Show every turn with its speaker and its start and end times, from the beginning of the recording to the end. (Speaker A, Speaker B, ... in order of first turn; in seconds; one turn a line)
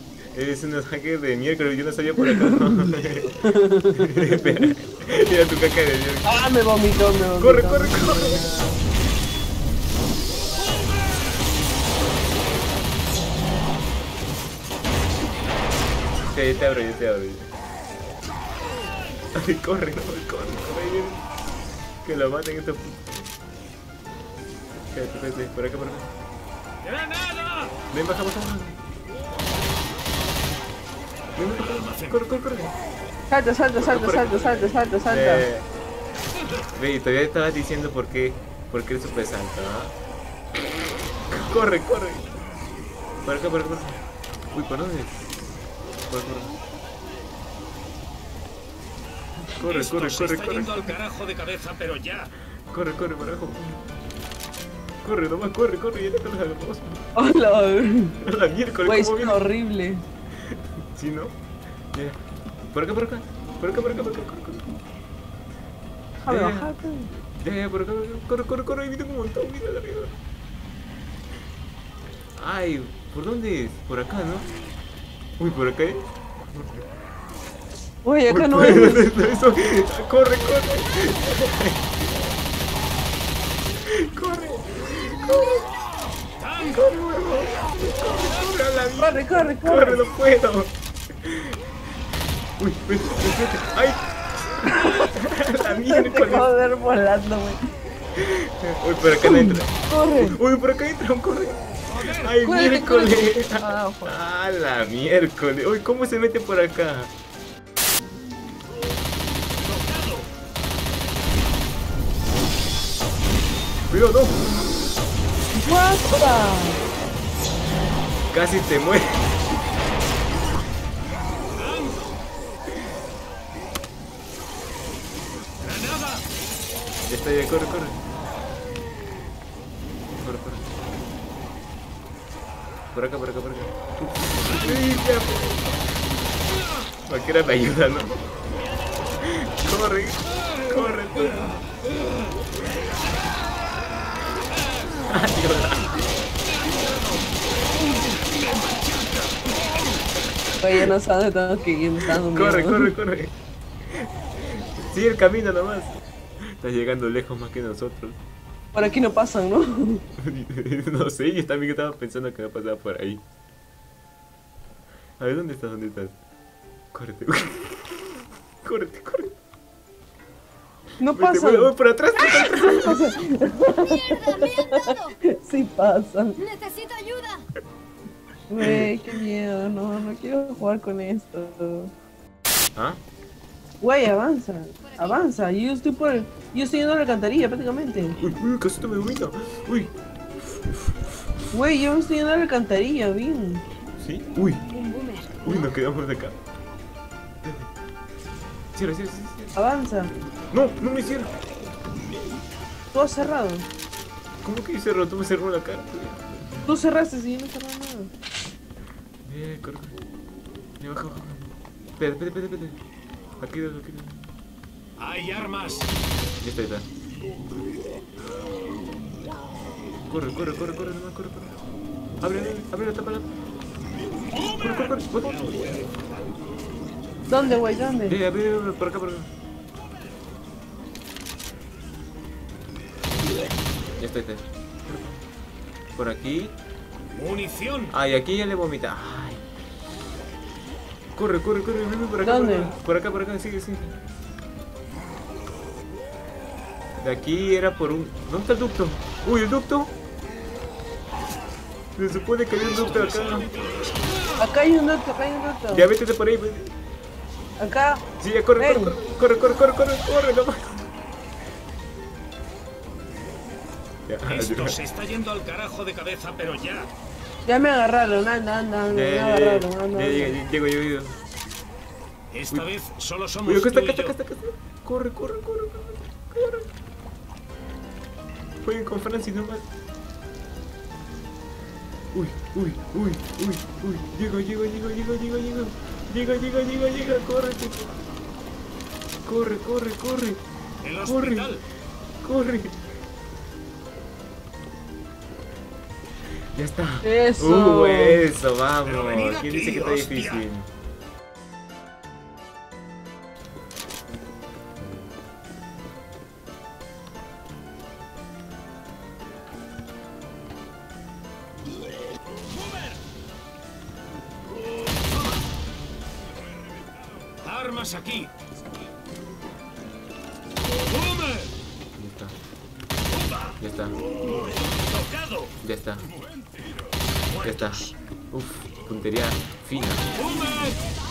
Speaker A: 0.3-6.4
Speaker B: 2.2-4.7
Speaker B: 6.2-8.8
Speaker A: 7.4-8.5
Speaker A: 16.2-17.5
Speaker A: 19.3-21.2
Speaker A: 22.0-23.3
Speaker A: 24.9-26.1
Speaker C: 26.8-27.7
Speaker A: 27.9-28.8
Speaker A: 31.4-32.7
Speaker C: 31.6-32.1
Speaker B: 33.3-35.5
Speaker A: 33.8-35.7
Speaker A: 36.7-39.9
Speaker A: 41.3-42.3
Speaker A: 43.2-45.4
Speaker A: 46.1-46.5
Speaker A: 49.5-50.9
Speaker C: 49.6-52.3
Speaker A: 52.7-53.8
Speaker A: 55.0-57.0
Speaker B: 57.1-58.2
Speaker A: 58.2-59.4
Speaker B: 58.8-60.0
Speaker A: 60.5-61.3
Speaker A: 61.9-64.6
Speaker B: 66.2-67.1
Speaker A: 66.3-66.7
Speaker A: 67.4-70.1
Speaker A: 72.3-74.5
Speaker A: 75.4-76.8
Speaker B: 78.0-79.1
Speaker A: 78.3-81.8
Speaker A: 83.8-85.7
Speaker C: 86.4-86.8
Speaker A: 86.7-91.6
Speaker B: 89.0-90.0
Speaker A: 92.6-96.5
Speaker B: 94.6-95.0
Speaker B: 95.7-97.6
Speaker A: 98.2-107.1
Speaker B: 99.2-100.4
Speaker C: 101.9-102.4
Speaker B: 102.4-104.1
Speaker C: 109.6-110.3
Speaker A: 113.9-114.7
Speaker B: 115.6-116.8
Speaker A: 118.3-119.3
Speaker C: 121.5-122.1
Speaker C: 125.6-126.2
Speaker A: 127.0-128.0
Speaker A: 130.2-130.7
Speaker A: 132.9-135.8
Speaker A: 137.0-138.2
Speaker A: 139.2-141.6
Speaker A: 145.1-146.0
Speaker C: 146.4-149.6
Speaker B: 150.6-152.9
Speaker A: 152.1-153.3
Speaker A: 153.9-158.2
Speaker B: 158.7-160.0
Speaker A: 160.2-163.2
Speaker A: 165.2-166.2
Speaker A: 166.9-169.3
Speaker B: 171.0-176.4
Speaker A: 171.1-173.1
Speaker D: 173.7-175.2
Speaker D: 176.4-177.5
Speaker B: 178.5-181.9
Speaker A: 178.6-178.9
Speaker B: 183.8-188.2
Speaker D: 184.8-185.3
Speaker A: 188.2-191.1
Speaker B: 191.5-193.6
Speaker A: 194.0-194.7
Speaker D: 194.7-195.7
Speaker A: 195.4-196.4
Speaker A: 198.7-199.5
Speaker B: 199.5-200.1
Speaker A: 200.5-201.3
Speaker B: 202.9-203.7
Speaker A: 204.4-206.7
Speaker B: 206.6-208.1
Speaker A: 209.2-209.9
Speaker A: 210.8-212.8
Speaker A: 213.4-214.2
Speaker C: 215.0-215.9
Speaker A: 216.4-216.9
Speaker A: 220.1-221.5
Speaker A: 222.2-223.3
Speaker C: 224.3-226.4
Speaker A: 224.6-225.4
Speaker B: 227.3-228.2
Speaker A: 228.1-229.3
Speaker A: 234.0-235.2
Speaker A: 235.9-236.5
Speaker C: 237.1-237.9
Speaker A: 237.9-239.4
Speaker A: 241.1-243.9
Speaker B: 242.2-242.7
Speaker A: 247.0-249.9
Speaker A: 251.9-253.5
Speaker C: 252.6-254.4
Speaker B: 254.4-255.9
Speaker A: 255.7-256.7
Speaker B: 257.6-258.0
Speaker A: 258.2-260.8
Speaker B: 258.6-258.9
Speaker A: 264.1-264.8
Speaker C: 264.2-266.9
Speaker B: 267.4-270.4
Speaker A: 268.9-271.2
Speaker C: 272.3-274.1
Speaker A: 273.4-276.7
Speaker A: 278.6-279.6
Speaker A: 282.1-287.9
Speaker A: 289.2-290.4
Speaker C: 290.8-291.6
Speaker A: 291.0-291.5
Speaker A: 292.2-292.8
Speaker A: 296.5-300.7
Speaker B: 297.0-298.2
Speaker C: 298.9-300.4
Speaker C: 317.4-318.3
Speaker C: 320.7-321.5
Speaker A: 322.0-322.4
Speaker C: 323.1-323.6
Speaker A: 323.6-324.0
Speaker C: 324.2-325.5
Speaker A: 325.6-326.1
Speaker C: 327.2-327.9
Speaker A: 327.4-330.1
Speaker C: 330.1-330.8